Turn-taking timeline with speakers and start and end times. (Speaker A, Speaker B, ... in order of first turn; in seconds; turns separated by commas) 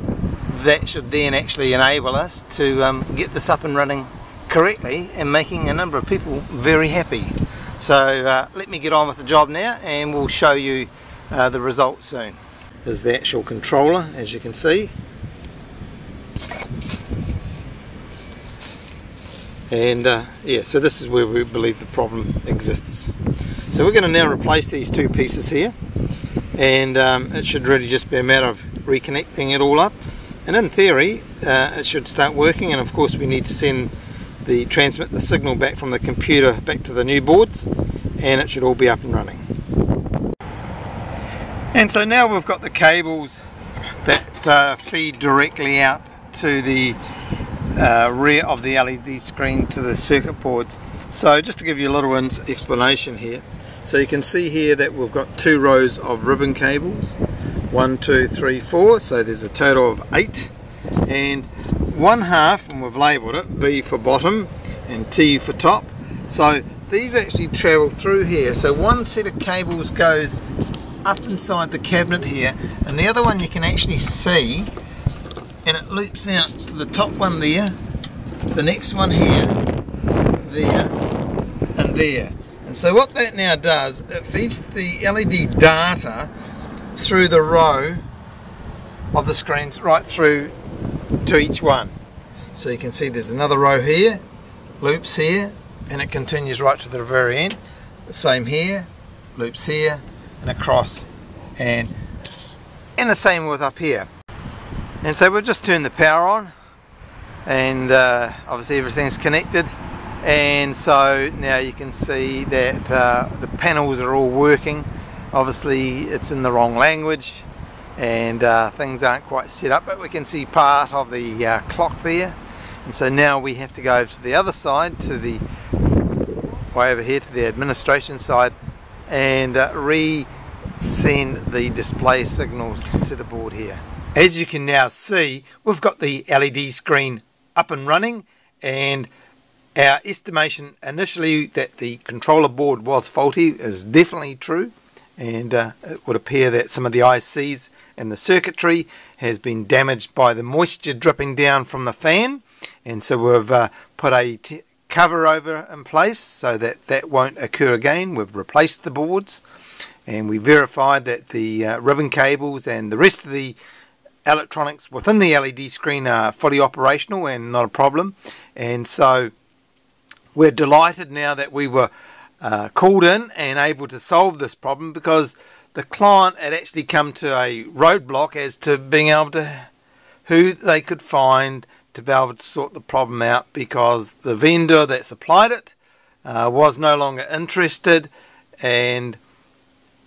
Speaker A: 0.5-14.9, Speaker A: 19.7-23.1, Speaker A: 23.7-25.8, Speaker A: 26.5-33.9, Speaker A: 34.4-39.4, Speaker A: 41.7-43.4, Speaker A: 44.0-47.0, Speaker A: 47.7-57.2, Speaker A: 57.7-60.5, Speaker A: 61.0-70.4, Speaker A: 71.0-74.7, Speaker A: 75.6-77.8, Speaker A: 78.5-79.6, Speaker A: 80.4-81.0, Speaker A: 81.8-86.3, Speaker A: 86.9-88.0, Speaker A: 89.1-90.5, Speaker A: 91.2-91.9, Speaker A: 92.5-94.2, Speaker A: 94.8-101.9, Speaker A: 103.0-104.1, Speaker A: 105.0-106.5, Speaker A: 107.4-117.5, Speaker A: 118.0-125.4, Speaker A: 126.7-128.5, Speaker A: 129.1-139.1, Speaker A: 139.7-159.4, Speaker A: 160.1-163.6, Speaker A: 164.2-169.3, Speaker A: 170.3-179.7, Speaker A: 180.2-189.2